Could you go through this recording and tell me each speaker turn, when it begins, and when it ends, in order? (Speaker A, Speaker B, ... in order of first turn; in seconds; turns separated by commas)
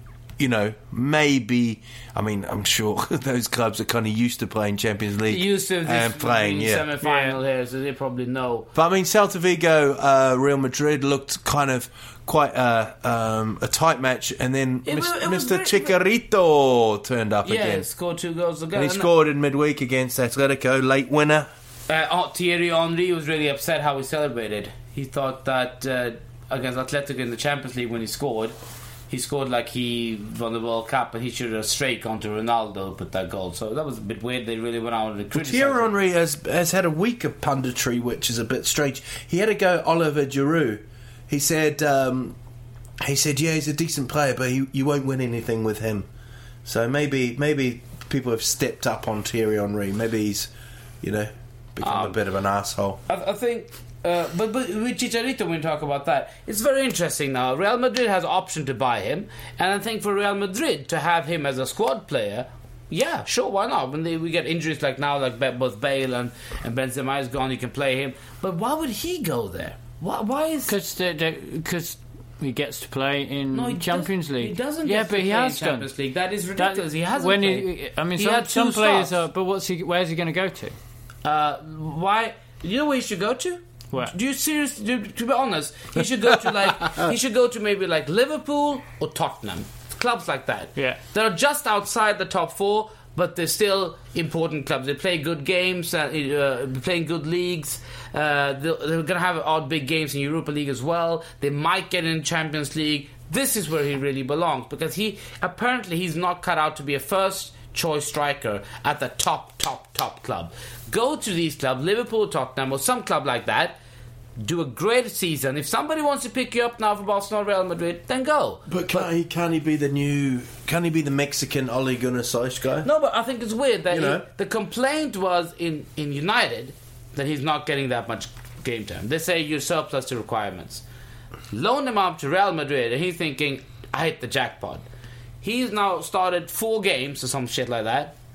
Speaker A: 0.4-6.8, Speaker B: 5.2-8.7, Speaker C: 7.0-7.4, Speaker A: 8.7-17.8, Speaker B: 14.8-16.0, Speaker B: 17.4-19.1, Speaker A: 18.7-21.5, Speaker B: 21.9-28.5, Speaker B: 29.1-35.9, Speaker A: 35.3-42.4, Speaker A: 43.0-46.1, Speaker A: 46.6-50.5, Speaker A: 51.0-53.0, Speaker B: 51.8-52.2, Speaker B: 53.1-70.7, Speaker C: 70.7-75.9, Speaker B: 73.5-79.2, Speaker C: 76.6-80.8, Speaker B: 81.2-113.8, Speaker B: 114.4-119.0, Speaker A: 118.7-122.9, Speaker B: 122.8-130.8, Speaker A: 123.9-124.2, Speaker B: 131.5-134.8, Speaker B: 135.4-138.1